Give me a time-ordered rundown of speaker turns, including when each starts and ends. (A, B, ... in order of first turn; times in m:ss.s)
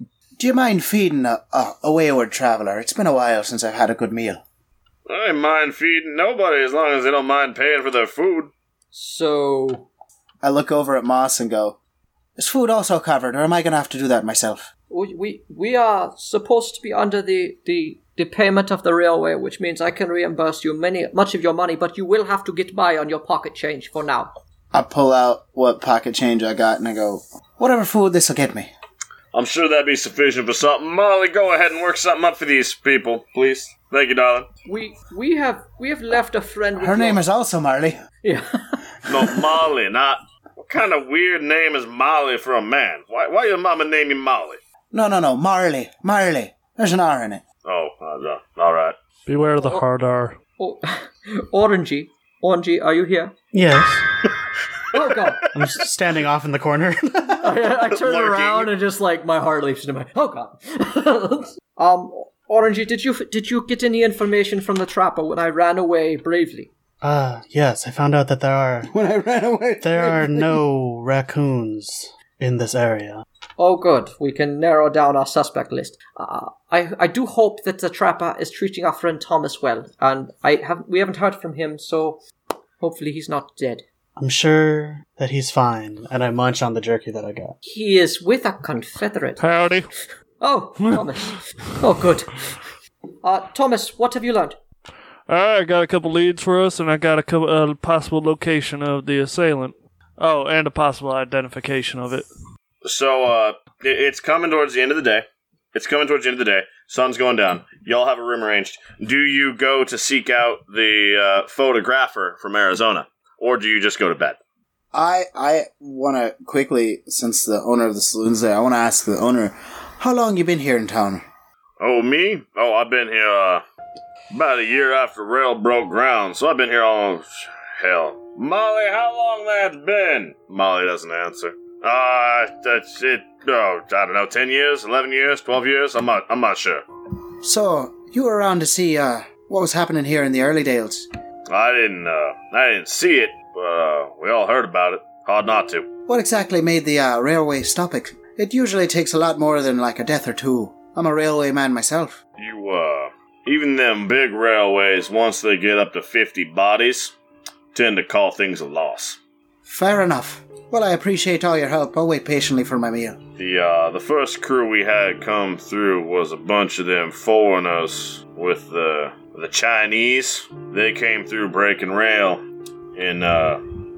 0:00.4-0:04.4 A
0:05.1-0:08.5 B
0:08.9-0:09.9 C
0:10.4-0:11.8 A
0:12.4-0:14.7 A
0:14.9-0:24.3 C
0:24.7-0:28.7 A
0:29.3-0:34.5 B
0:34.7-0:37.2 C
0:36.8-0:38.0 A
0:38.2-0:38.8 C
0:39.1-0:44.6 B
0:44.9-0:47.4 A
0:47.6-0:49.0 B
0:49.3-0:50.4 D
0:49.6-0:49.9 C
0:50.6-0:53.3 C
0:53.5-0:54.0 E
0:54.9-0:55.5 C
0:55.5-0:57.5 E
0:57.4-1:06.7 C
0:57.8-0:58.7 B
1:07.0-1:08.9 E
1:08.9-1:10.6 A
1:09.8-1:13.2 E
1:13.6-1:22.2 C
1:22.8-1:23.8 C
1:24.2-1:27.6 E
1:27.6-1:29.4 C
1:29.4-1:29.9 D
1:30.4-1:32.5 C
1:33.2-1:34.6 C
1:35.3-1:42.3 D
1:42.8-1:54.4 B
1:54.9-2:01.2 A
2:01.8-2:03.6 B
2:04.3-2:16.8 B
2:17.4-2:21.1 A
2:21.5-2:25.9 B
2:26.1-2:32.2 A
2:32.4-2:37.1 B
2:37.7-2:39.2 B
2:39.7-2:43.2 A
2:43.4-2:52.4 B
2:53.0-2:53.6 B